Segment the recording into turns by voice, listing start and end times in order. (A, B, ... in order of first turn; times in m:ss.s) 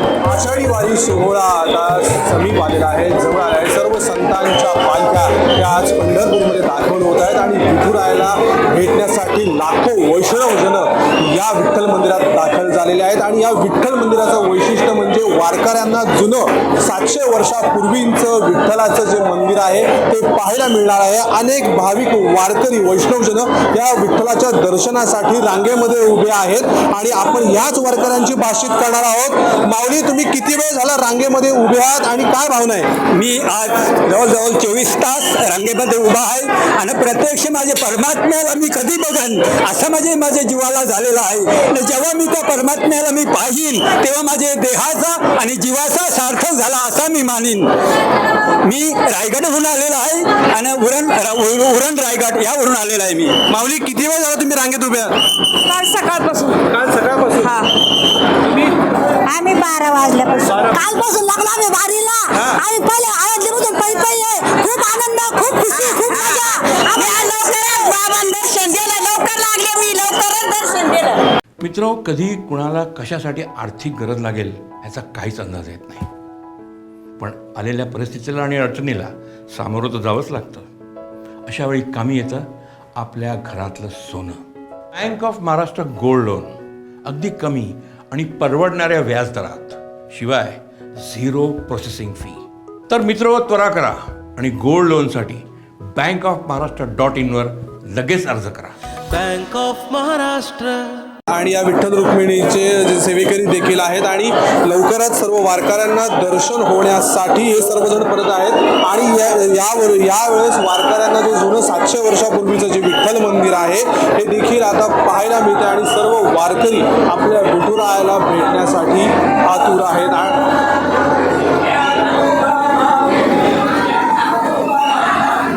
0:00.2-0:32.9 A
0:33.1-0:47.7 B
0:48.6-0:53.4 B
0:53.5-0:55.2 A
0:55.6-0:56.6 C
0:56.6-0:57.6 A
0:59.2-1:11.2 C
1:11.6-1:14.7 B
1:11.9-1:16.0 D
1:15.4-1:15.8 B
1:17.2-1:20.6 D
1:17.4-1:17.8 B
1:21.5-1:22.4 D
1:23.0-1:24.3 D
1:24.9-1:26.5 D
1:27.0-1:30.5 D
1:31.0-1:32.4 D
1:32.9-1:35.4 D
1:36.0-1:38.6 D
1:39.1-1:41.0 E
1:41.3-2:00.5 A